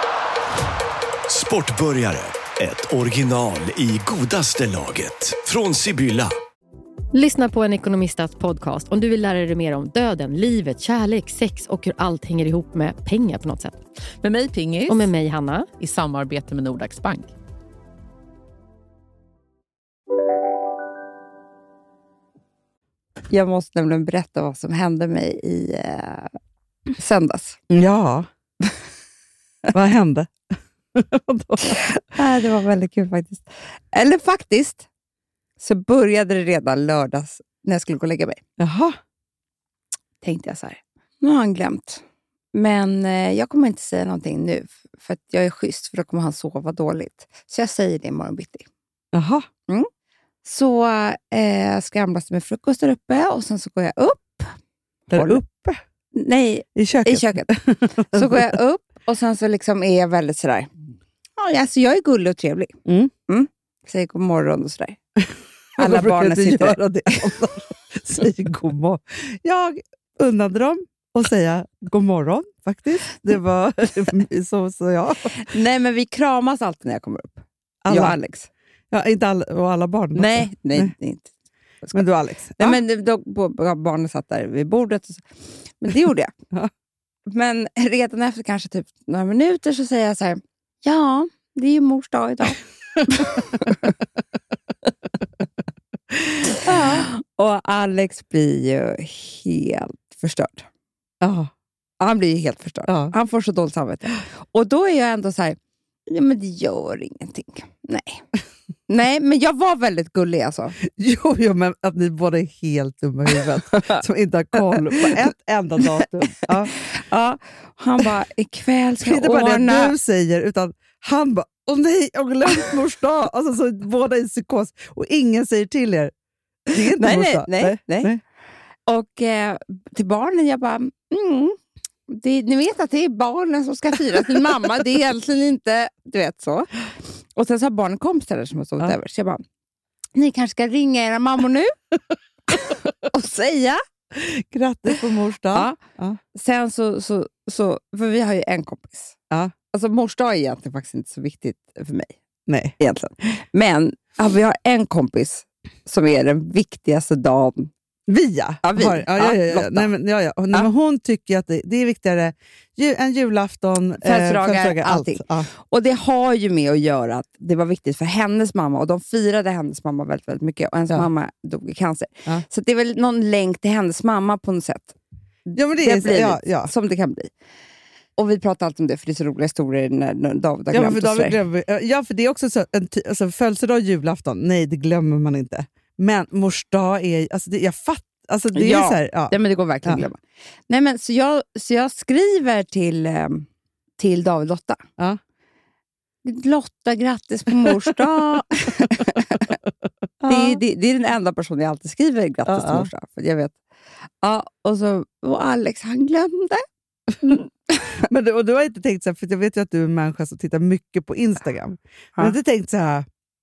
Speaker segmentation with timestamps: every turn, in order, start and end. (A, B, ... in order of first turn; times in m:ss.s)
0:01.3-0:06.3 A
0:07.1-0:13.8 B
0:14.2-0:15.1 C
0:14.9-0:15.7 B
0:15.8-0:17.3 C
0:23.3-0:26.3 D
0:27.0-0:27.6 D
0:27.7-0:28.3 E
0:29.7-0:30.3 E
0:30.9-0:31.9 E
0:31.8-0:34.8 D
0:35.6-0:38.4 D
0:38.6-0:39.0 E
0:40.2-0:42.0 D
0:42.5-0:48.6 D
0:49.1-0:49.5 E
0:50.4-0:54.5 D
0:55.1-0:55.8 E
0:55.1-0:55.4 D
0:56.1-0:57.5 D
0:56.8-0:58.5 E
0:58.1-1:00.7 D
1:01.4-1:02.7 D
1:02.8-1:03.1 E
1:03.3-1:05.0 D
1:05.2-1:15.4 E
1:05.8-1:07.3 D
1:15.4-1:18.5 D
1:17.8-1:18.1 E
1:18.9-1:20.9 E
1:20.1-1:21.3 D
1:21.9-1:22.8 E
1:22.6-1:25.2 D
1:25.8-1:26.3 D
1:27.3-1:33.8 D
1:36.4-1:37.1 E
1:36.7-1:40.7 D
1:41.2-1:41.5 E
1:42.0-1:48.2 D
1:42.9-1:43.1 E
1:48.9-1:50.8 D
1:50.8-1:56.7 E
1:53.8-1:54.0 D
1:54.7-1:55.2 D
1:56.8-1:59.9 D
1:59.0-2:06.1 E
2:06.7-2:08.2 E
2:06.9-2:08.1 D
2:08.9-2:11.6 D
2:12.1-2:19.4 D
2:20.1-2:21.7 D
2:22.5-2:23.8 D
2:24.1-2:26.2 E
2:25.5-2:25.8 D
2:26.3-2:29.1 D
2:29.7-2:32.1 D
2:32.5-2:32.7 E
2:32.8-2:37.7 D
2:38.1-2:45.5 E
2:38.6-2:39.9 D
2:44.0-2:54.9 D
2:55.5-2:57.3 D
2:55.5-2:56.7 E
2:58.2-3:01.4 D
3:00.7-3:10.0 E
3:08.5-3:13.4 D
3:14.0-3:14.8 D
3:16.2-3:19.6 D
3:17.6-3:18.0 E
3:20.2-3:20.6 E
3:20.2-3:23.6 D
3:22.4-3:22.9 E
3:24.2-3:26.6 D
3:27.2-3:27.8 D
3:27.9-3:33.1 E